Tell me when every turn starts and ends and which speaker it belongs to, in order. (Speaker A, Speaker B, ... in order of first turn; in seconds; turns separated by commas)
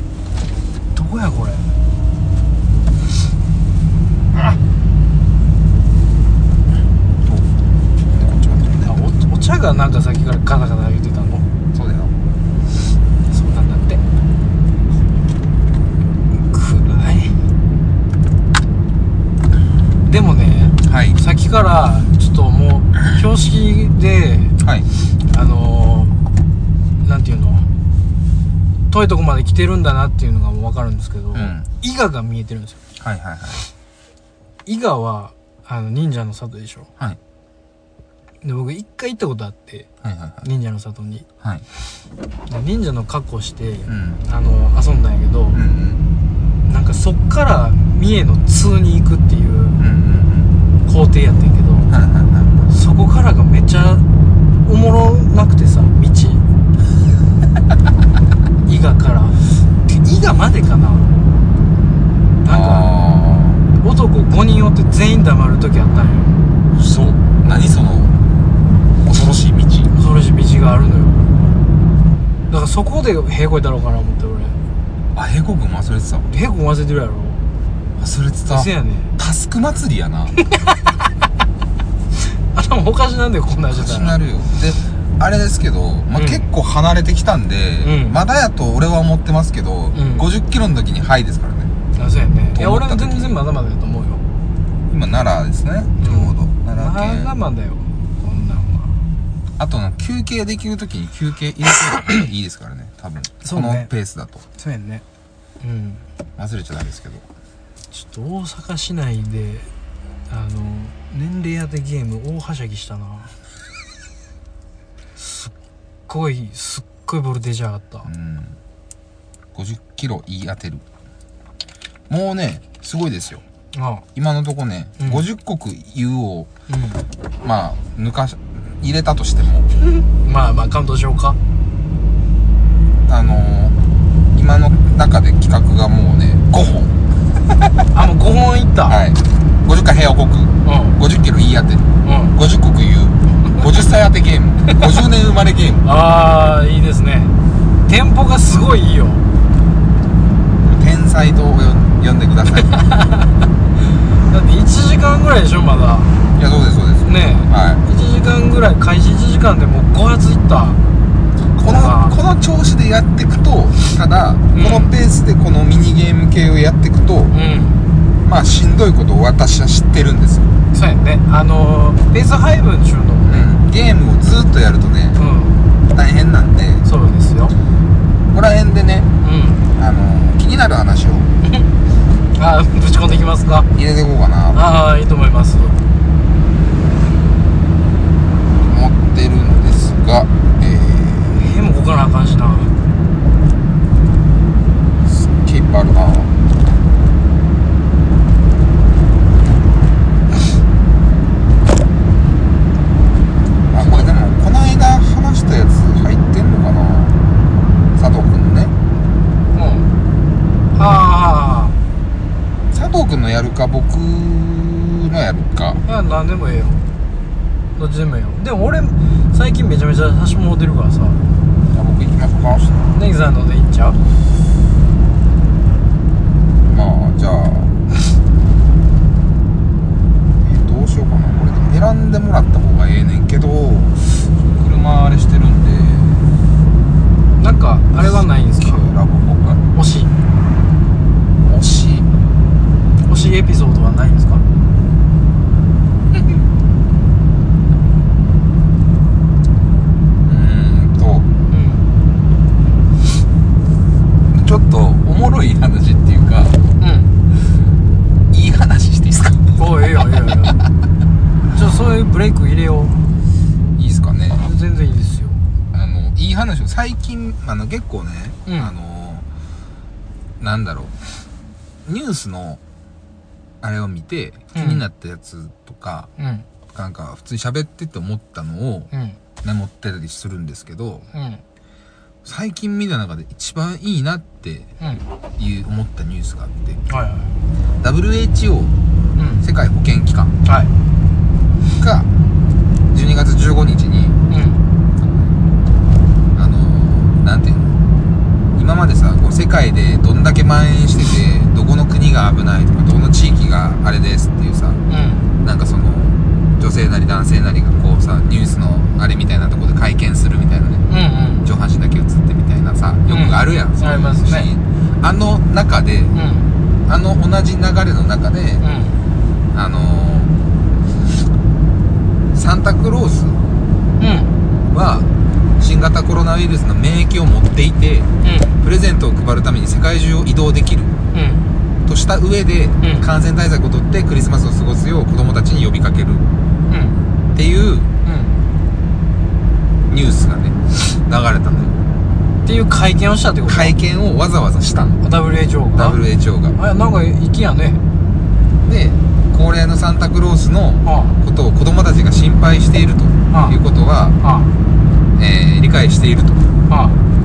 Speaker A: 0.9-1.7, Speaker B: 7.2-7.5, Speaker B: 8.1-8.9, Speaker A: 8.8-11.5, Speaker B: 11.7-12.1, Speaker A: 13.3-14.0, Speaker A: 16.4-17.3, Speaker A: 20.1-24.6, Speaker B: 20.8-21.2, Speaker B: 24.6-24.9, Speaker A: 25.3-26.1, Speaker A: 27.0-27.7, Speaker A: 28.9-32.8, Speaker B: 31.3-31.7, Speaker B: 33.0-33.7, Speaker A: 34.7-36.9, Speaker A: 38.4-39.9, Speaker B: 40.0-40.5, Speaker A: 40.4-41.3, Speaker A: 42.5-45.6, Speaker B: 43.9-44.2, Speaker B: 45.5-46.1, Speaker A: 46.7-49.8, Speaker B: 49.8-50.5, Speaker A: 50.9-51.9, Speaker B: 51.9-52.7, Speaker A: 52.7-54.0, Speaker A: 54.7-56.4, Speaker A: 58.7-61.1, Speaker A: 62.4-62.9, Speaker B: 62.5-63.6, Speaker A: 63.8-66.4, Speaker B: 66.8-68.2, Speaker B: 69.0-69.9, Speaker A: 69.9-71.4, Speaker A: 72.5-74.6, Speaker B: 75.2-76.3, Speaker A: 76.3-77.4, Speaker B: 78.0-80.4, Speaker A: 78.5-79.1, Speaker A: 80.4-80.8, Speaker A: 82.2-84.2, Speaker B: 83.7-91.7, Speaker A: 86.2-86.5, Speaker A: 87.8-88.2, Speaker A: 89.9-90.2, Speaker A: 92.0-94.2, Speaker B: 92.5-93.3, Speaker B: 94.9-97.3, Speaker A: 96.0-98.9, Speaker B: 99.6-104.5, Speaker A: 103.4-103.9, Speaker A: 104.6-105.0, Speaker A: 105.6-106.0, Speaker B: 106.4-107.3, Speaker A: 107.9-109.7, Speaker A: 110.3-113.3, Speaker A: 115.2-115.5, Speaker A: 116.1-118.1, Speaker B: 118.1-118.6, Speaker B: 119.5-120.8, Speaker B: 122.1-123.4, Speaker A: 123.7-124.0, Speaker B: 124.2-126.5, Speaker A: 125.0-125.2, Speaker A: 126.7-127.0, Speaker B: 127.4-129.7, Speaker A: 130.2-131.4, Speaker B: 133.1-133.8, Speaker B: 134.3-137.0, Speaker A: 137.9-139.0, Speaker B: 138.9-145.8, Speaker A: 140.6-141.0, Speaker A: 142.0-142.4, Speaker A: 145.8-147.3, Speaker A: 147.9-149.2, Speaker B: 150.6-152.9, Speaker A: 152.6-153.3, Speaker A: 154.2-156.1, Speaker B: 156.4-157.8, Speaker A: 157.1-160.8, Speaker A: 161.5-162.2, Speaker B: 161.6-167.3, Speaker A: 164.5-164.9, Speaker A: 167.3-167.8, Speaker B: 168.2-170.5, Speaker A: 170.7-173.5, Speaker B: 173.3-175.2, Speaker A: 175.2-175.6, Speaker B: 175.9-176.9, Speaker A: 176.8-177.6, Speaker B: 178.3-179.1, Speaker A: 179.2-179.7, Speaker B: 179.8-181.3, Speaker A: 181.4-181.7, Speaker A: 182.3-183.7, Speaker B: 183.8-184.7, Speaker A: 184.5-185.8, Speaker B: 188.7-191.4, Speaker A: 191.3-192.7, Speaker B: 195.1-196.3, Speaker B: 203.7-207.2, Speaker A: 203.8-204.1, Speaker B: 208.0-208.7, Speaker A: 209.5-209.9, Speaker A: 210.8-211.8, Speaker B: 212.7-215.8, Speaker A: 215.9-216.8, Speaker A: 217.8-221.2, Speaker B: 221.7-222.9, Speaker A: 222.9-224.0, Speaker B: 226.7-227.8, Speaker B: 230.4-236.3, Speaker A: 237.4-238.8, Speaker B: 238.0-239.6, Speaker A: 239.7-240.2, Speaker B: 241.4-242.1, Speaker A: 243.1-244.4, Speaker B: 250.3-251.3, Speaker A: 251.5-251.9, Speaker B: 254.3-256.6, Speaker A: 256.8-257.1, Speaker B: 258.3-259.6, Speaker A: 259.6-260.6, Speaker A: 261.5-263.0, Speaker B: 263.8-264.4, Speaker A: 264.4-265.4, Speaker B: 265.7-269.3, Speaker A: 268.5-268.7, Speaker B: 270.4-270.9, Speaker B: 271.9-272.6, Speaker B: 273.6-276.1, Speaker A: 274.5-274.8, Speaker A: 276.2-276.5, Speaker B: 276.7-278.9, Speaker A: 278.9-279.2, Speaker B: 279.4-281.1, Speaker A: 281.1-281.4, Speaker B: 282.2-284.7, Speaker B: 285.4-286.8, Speaker A: 286.9-287.3, Speaker B: 287.8-288.7, Speaker A: 289.2-289.4, Speaker B: 289.4-290.4, Speaker A: 290.4-290.7, Speaker B: 291.8-292.1, Speaker B: 292.9-294.2, Speaker A: 294.3-294.6, Speaker B: 296.4-297.8, Speaker B: 298.5-304.8, Speaker A: 304.9-305.3, Speaker B: 305.4-310.8, Speaker A: 310.9-311.5, Speaker B: 311.4-316.1, Speaker A: 313.1-314.5, Speaker A: 316.1-316.5, Speaker B: 316.9-318.6, Speaker A: 318.6-319.0, Speaker B: 319.5-320.4, Speaker B: 322.3-323.4, Speaker A: 324.0-324.3, Speaker B: 324.7-325.1, Speaker B: 325.6-328.1, Speaker A: 328.2-328.6, Speaker B: 328.6-331.0, Speaker A: 331.1-331.5, Speaker B: 331.9-336.3, Speaker A: 336.7-337.0, Speaker B: 337.4-337.9, Speaker A: 338.1-338.4, Speaker B: 339.9-341.8, Speaker A: 342.4-343.8, Speaker B: 343.5-345.0, Speaker A: 345.0-346.0, Speaker B: 345.7-346.6, Speaker A: 346.6-347.8, Speaker B: 348.6-354.2, Speaker A: 350.9-351.2, Speaker A: 353.3-353.6, Speaker A: 354.2-354.5, Speaker B: 355.2-356.5, Speaker A: 356.7-357.0